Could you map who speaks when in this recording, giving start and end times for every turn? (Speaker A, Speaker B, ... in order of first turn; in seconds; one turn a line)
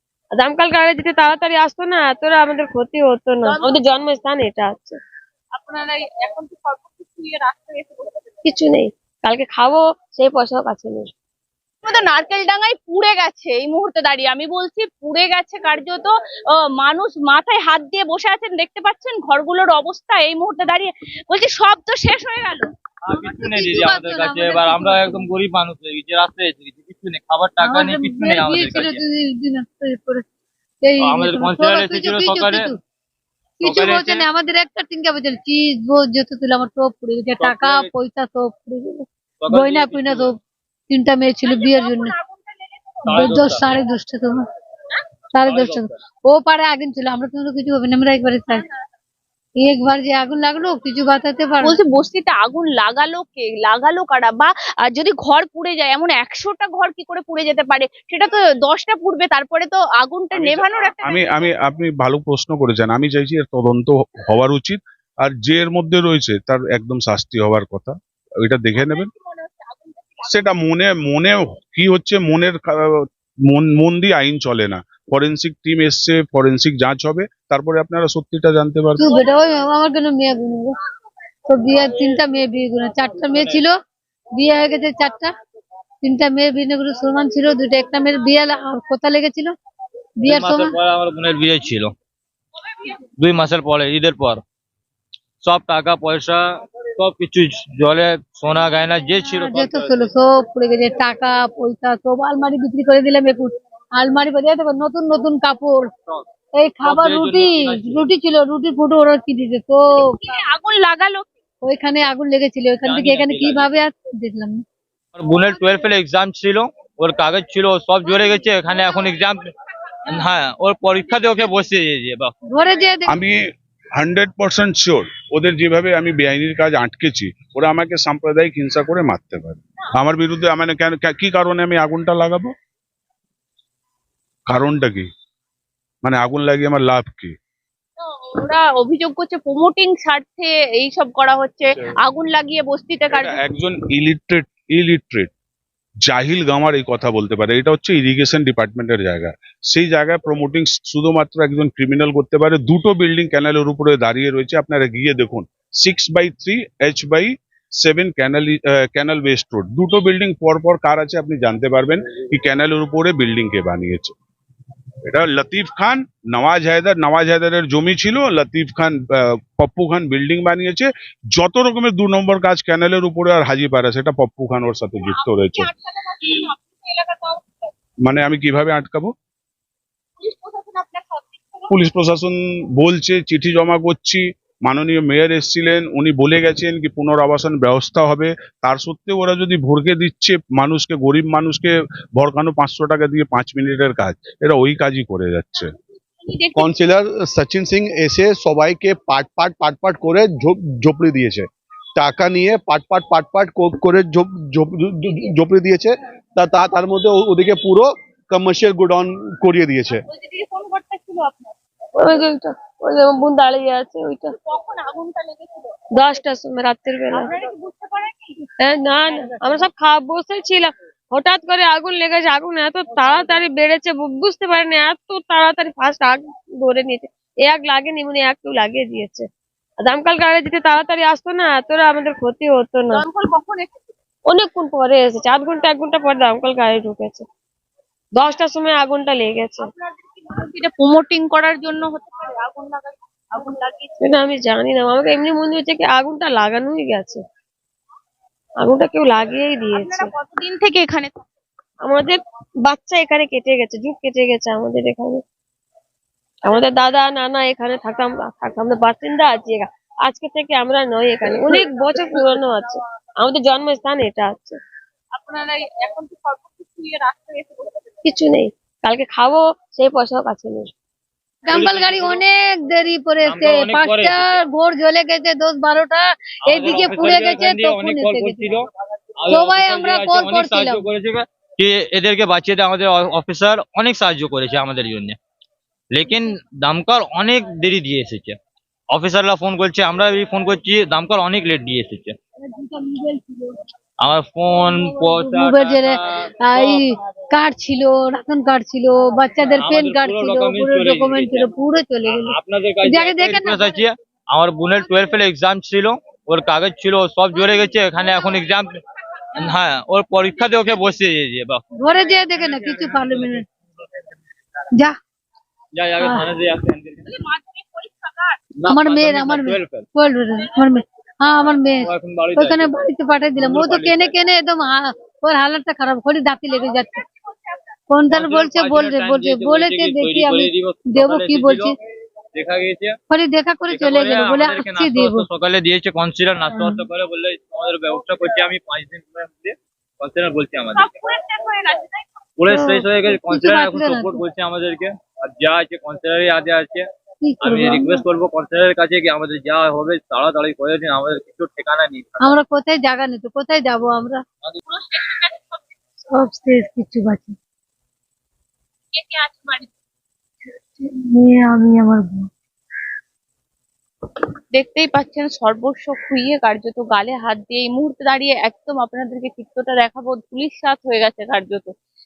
Speaker A: 0.4-5.0
Speaker B: 3.4-3.8
Speaker B: 5.5-8.4
Speaker A: 8.4-11.1
Speaker B: 11.8-22.7
Speaker C: 23.0-29.0
Speaker D: 23.3-25.3
Speaker D: 27.6-30.2
Speaker D: 30.8-32.8
Speaker C: 31.0-32.7
Speaker D: 33.6-40.4
Speaker C: 33.6-34.3
Speaker C: 37.4-37.9
Speaker C: 39.4-40.3
Speaker D: 40.9-42.2
Speaker B: 41.5-43.4
Speaker C: 43.1-43.8
Speaker D: 43.1-44.4
Speaker D: 45.3-48.7
Speaker C: 45.4-46.0
Speaker D: 49.6-51.8
Speaker B: 51.6-61.5
Speaker E: 60.3-69.1
Speaker B: 68.7-70.5
Speaker E: 70.2-79.1
Speaker D: 79.0-80.8
Speaker D: 81.5-83.8
Speaker C: 83.3-83.6
Speaker D: 84.4-85.4
Speaker D: 86.0-89.6
Speaker D: 90.2-90.8
Speaker C: 90.2-92.0
Speaker C: 93.2-94.4
Speaker C: 95.4-100.0
Speaker D: 99.2-105.9
Speaker D: 106.5-110.4
Speaker C: 106.8-108.1
Speaker B: 110.1-111.3
Speaker D: 111.6-114.7
Speaker C: 112.8-113.7
Speaker C: 115.2-119.5
Speaker C: 120.0-122.3
Speaker D: 122.5-123.2
Speaker E: 124.0-132.5
Speaker E: 134.5-135.1
Speaker E: 136.0-137.3
Speaker B: 138.0-143.4
Speaker E: 143.1-145.3
Speaker E: 146.0-164.1
Speaker E: 165.1-175.7
Speaker B: 175.0-177.7
Speaker E: 178.0-179.1
Speaker B: 180.2-181.7
Speaker E: 181.7-195.8
Speaker B: 195.6-196.7
Speaker F: 196.6-201.5
Speaker F: 202.0-210.0
Speaker B: 210.1-211.6
Speaker A: 212.0-214.3
Speaker B: 214.3-215.8
Speaker A: 216.0-217.3
Speaker B: 217.1-218.4
Speaker A: 218.6-229.3
Speaker A: 229.8-233.1
Speaker B: 232.9-233.9
Speaker A: 234.3-237.3
Speaker A: 238.2-239.7
Speaker B: 239.7-243.9
Speaker A: 244.0-247.2
Speaker A: 248.6-250.1
Speaker B: 249.8-251.2
Speaker A: 251.8-255.2
Speaker A: 256.5-264.6
Speaker B: 261.5-262.2
Speaker B: 265.1-267.9
Speaker A: 268.1-270.7
Speaker D: 271.4-278.5
Speaker C: 271.5-272.2
Speaker C: 273.2-274.4
Speaker C: 276.4-285.2
Speaker D: 279.3-280.9
Speaker C: 285.9-288.4
Speaker C: 288.9-292.2
Speaker D: 292.5-293.6
Speaker C: 294.0-296.8
Speaker D: 294.6-303.8
Speaker C: 299.4-301.5
Speaker C: 302.1-308.8
Speaker C: 309.3-311.6
Speaker D: 311.8-313.5
Speaker C: 312.3-313.4
Speaker C: 315.7-317.1
Speaker D: 316.0-316.3
Speaker B: 317.1-318.4
Speaker C: 318.6-319.9
Speaker D: 318.7-327.0
Speaker C: 321.4-324.2
Speaker D: 327.9-331.8
Speaker C: 328.1-331.8
Speaker C: 332.3-333.0
Speaker D: 333.1-335.3
Speaker C: 333.7-340.9
Speaker D: 336.5-336.9
Speaker B: 340.7-342.1
Speaker C: 342.4-352.2
Speaker A: 342.5-342.8
Speaker D: 343.0-344.2
Speaker D: 347.2-348.1
Speaker D: 352.2-354.2
Speaker B: 354.7-355.6
Speaker D: 356.1-357.4
Speaker B: 358.9-359.7
Speaker D: 360.8-362.3
Speaker B: 364.5-371.7